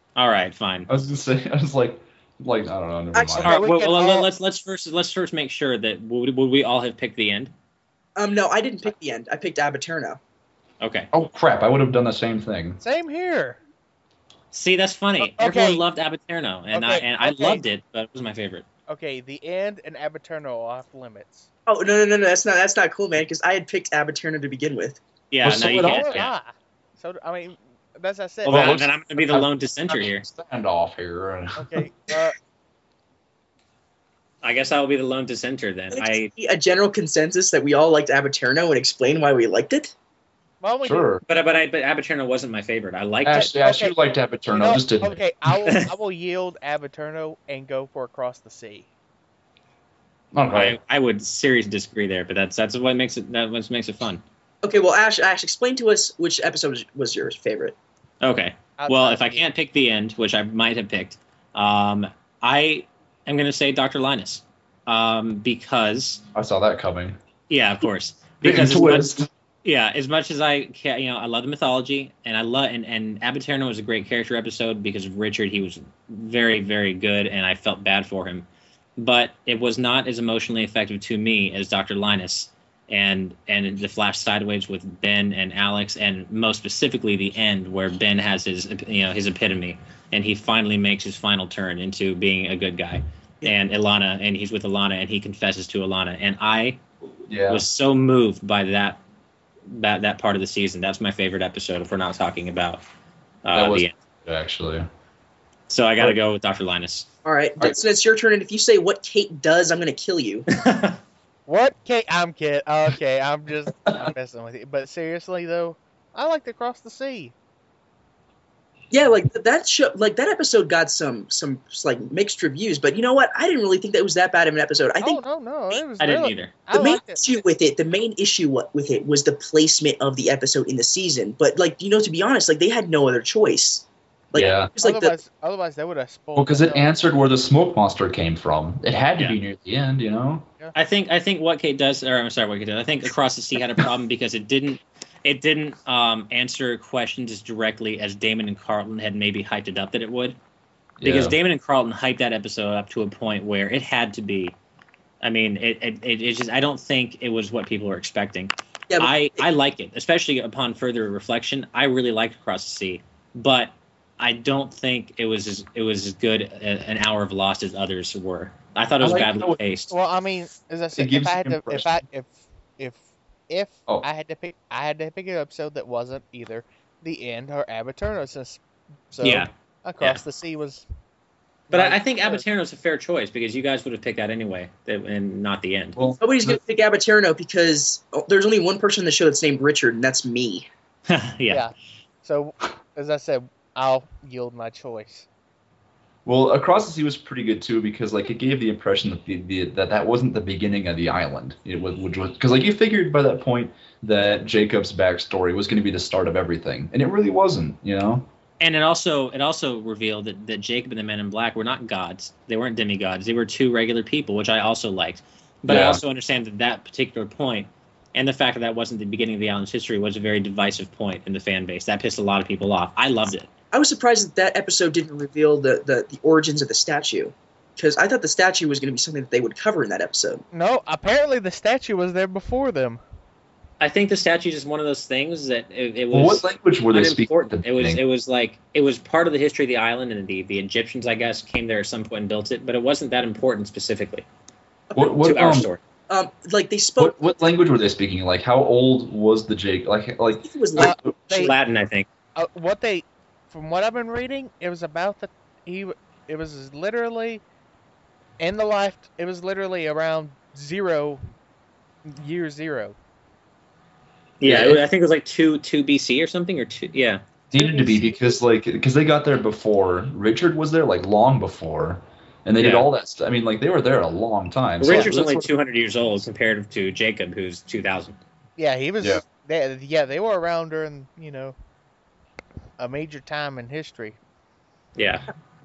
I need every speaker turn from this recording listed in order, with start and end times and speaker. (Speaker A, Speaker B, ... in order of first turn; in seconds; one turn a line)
Speaker A: 0.1-0.9
Speaker B: 0.9-3.6
Speaker C: 3.1-3.7
Speaker A: 3.4-7.5
Speaker D: 3.5-4.3
Speaker C: 8.2-10.2
Speaker A: 10.8-11.1
Speaker B: 11.1-12.8
Speaker D: 12.8-13.6
Speaker A: 14.5-18.6
Speaker D: 15.2-15.8
Speaker D: 16.7-17.6
Speaker D: 18.9-21.5
Speaker C: 21.7-25.0
Speaker A: 25.3-26.3
Speaker B: 25.4-26.2
Speaker D: 25.7-28.7
Speaker A: 28.4-30.3
Speaker B: 28.5-31.8
Speaker D: 31.6-32.4
Speaker A: 34.4-36.3
Speaker C: 35.9-39.9
Speaker D: 40.6-41.1
Speaker B: 40.8-41.2
Speaker A: 41.2-43.5
Speaker B: 43.2-45.2
Speaker D: 43.3-43.9
Speaker D: 44.5-48.9
Speaker B: 50.3-50.8
Speaker A: 50.5-54.2
Speaker C: 54.6-57.7
Speaker A: 58.2-66.2
Speaker D: 58.8-59.4
Speaker B: 66.3-67.2
Speaker A: 67.5-78.5
Speaker B: 68.4-69.3
Speaker A: 79.0-96.8
Speaker B: 97.3-97.6
Speaker A: 97.5-99.0
Speaker A: 99.7-102.8
Speaker A: 103.4-103.9
Speaker B: 103.5-104.9
Speaker A: 105.7-107.1
Speaker C: 107.2-110.5
Speaker A: 110.5-111.0
Speaker D: 111.5-117.3
Speaker B: 113.8-114.1
Speaker C: 118.9-125.2
Speaker D: 125.0-127.4
Speaker A: 126.0-126.5
Speaker C: 126.7-135.2
Speaker B: 134.3-134.7
Speaker D: 134.7-136.9
Speaker B: 136.3-140.4
Speaker A: 140.7-150.4
Speaker B: 151.0-151.3
Speaker A: 151.0-154.5
Speaker A: 155.2-169.9
Speaker C: 158.9-159.4
Speaker B: 169.0-169.6
Speaker D: 169.9-180.8
Speaker B: 170.9-171.9
Speaker A: 179.2-179.5
Speaker D: 181.7-182.4
Speaker A: 181.7-186.0
Speaker B: 186.0-186.6
Speaker C: 186.2-190.7
Speaker A: 191.1-191.7
Speaker D: 192.2-195.3
Speaker B: 196.2-208.3
Speaker A: 208.6-223.5
Speaker B: 215.7-216.0
Speaker C: 223.7-230.4
Speaker D: 230.5-233.0
Speaker A: 233.8-244.2
Speaker B: 236.1-238.0
Speaker C: 244.9-245.2
Speaker B: 244.9-245.7
Speaker A: 245.2-245.8
Speaker C: 246.1-247.3
Speaker B: 247.0-251.5
Speaker C: 250.4-250.9
Speaker D: 250.8-251.5
Speaker A: 251.3-252.1
Speaker D: 252.3-257.4
Speaker D: 258.4-261.2
Speaker D: 262.1-262.9
Speaker A: 264.4-267.2
Speaker B: 264.4-264.8
Speaker B: 267.5-275.5
Speaker D: 267.5-268.0
Speaker A: 272.6-272.9
Speaker A: 274.8-278.2
Speaker D: 274.9-275.1
Speaker D: 278.6-281.5
Speaker D: 282.8-284.2
Speaker A: 284.9-285.3